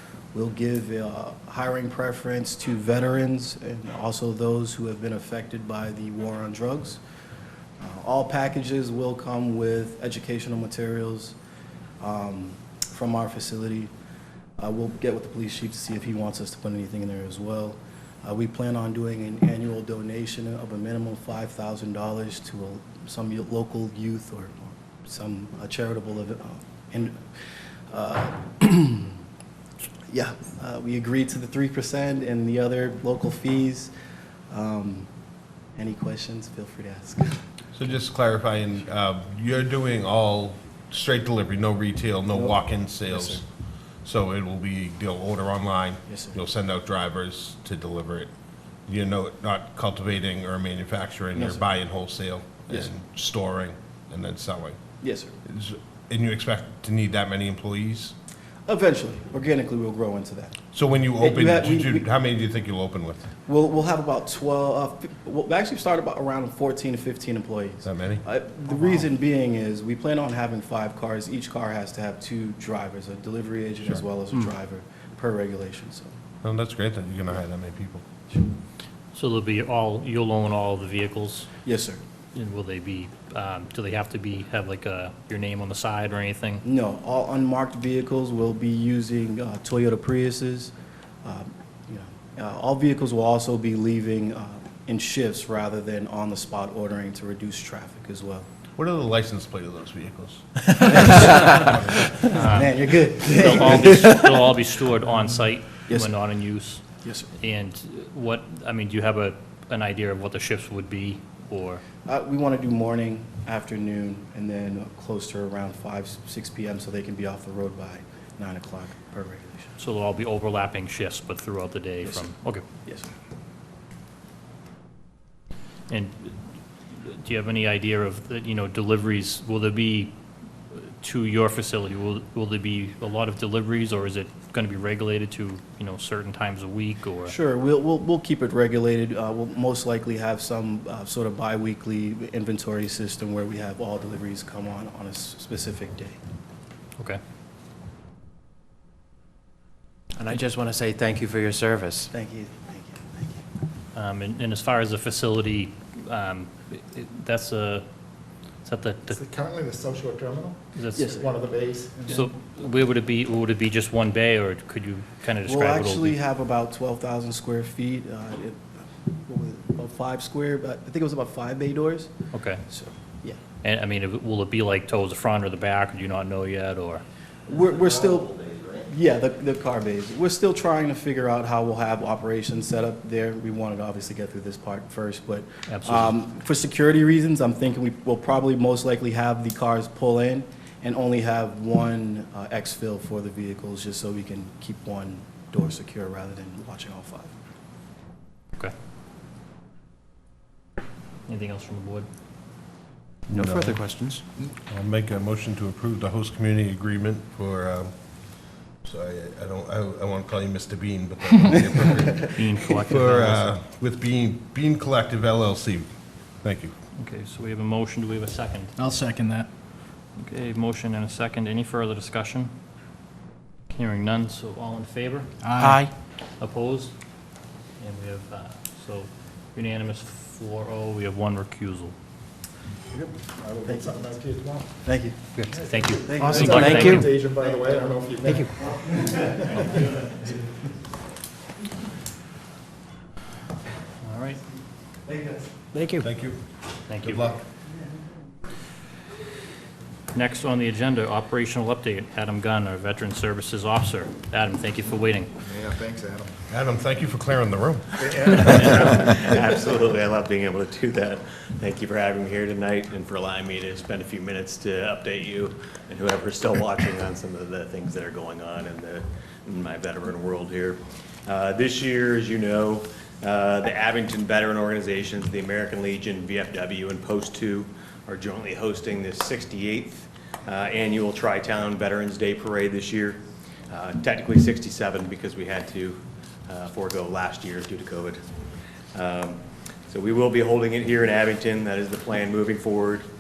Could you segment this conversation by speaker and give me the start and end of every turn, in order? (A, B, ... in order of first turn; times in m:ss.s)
0:00.3-0:07.0 A
0:07.8-0:11.3 A
0:12.0-0:13.9 A
0:14.6-0:27.2 A
0:27.9-0:29.2 A
0:30.1-0:33.9 A
0:34.5-0:35.1 A
0:35.7-0:38.0 A
0:37.7-0:48.3 B
0:42.3-0:43.4 A
0:46.1-0:46.4 A
0:48.8-0:54.8 B
0:51.3-0:51.6 A
0:55.0-0:55.3 A
0:55.4-0:58.1 B
0:58.6-1:00.6 A
1:00.7-1:03.2 B
1:01.2-1:02.1 A
1:03.4-1:16.1 A
1:07.8-1:08.2 B
1:16.4-1:18.0 B
1:19.1-1:21.5 C
1:21.6-1:22.0 A
1:22.3-1:26.6 C
1:26.6-1:30.7 A
1:31.2-1:38.5 A
1:38.8-1:42.4 B
1:42.3-1:51.8 C
1:42.3-1:44.2 A
1:45.9-1:46.1 A
1:47.0-1:47.3 A
1:52.0-1:59.7 A
1:59.8-2:02.6 C
2:02.0-2:02.3 A
2:02.8-2:03.1 A
2:05.9-2:10.1 C
2:10.7-2:17.4 C
2:17.2-2:26.2 A
2:30.2-2:32.1 D
2:32.1-2:33.4 A
2:33.9-2:37.8 C
2:38.6-2:39.2 C
2:39.1-2:42.3 E
2:40.8-2:41.2 C
2:41.0-2:41.2 A
2:42.1-2:46.2 C
2:45.4-2:52.1 A
2:52.3-2:52.6 C
2:52.7-2:53.4 A
2:53.6-2:57.0 C
2:57.5-3:17.3 A
3:05.7-3:06.1 C
3:21.3-3:22.1 C
3:23.3-3:23.8 B
3:23.3-3:24.2 D
3:24.6-3:36.7 B
3:32.3-3:33.5 C
3:37.0-3:38.7 C
3:40.2-3:42.5 C
3:43.7-3:45.3 C
3:45.6-3:45.9 D
3:46.4-3:46.9 C
3:47.8-3:51.9 C
3:52.9-3:54.7 E
3:54.8-3:55.4 A
3:55.4-3:57.1 C
3:55.4-3:59.8 E
3:56.0-3:56.8 A
3:56.2-3:57.0 D
4:04.0-4:04.4 C
4:06.0-4:06.4 B
4:06.9-4:07.4 C
4:07.0-4:07.4 B
4:10.1-4:15.3 C
4:15.4-4:16.4 E
4:16.5-4:18.8 B
4:18.0-4:19.0 E
4:18.4-4:48.2 F
4:48.9-4:53.1 F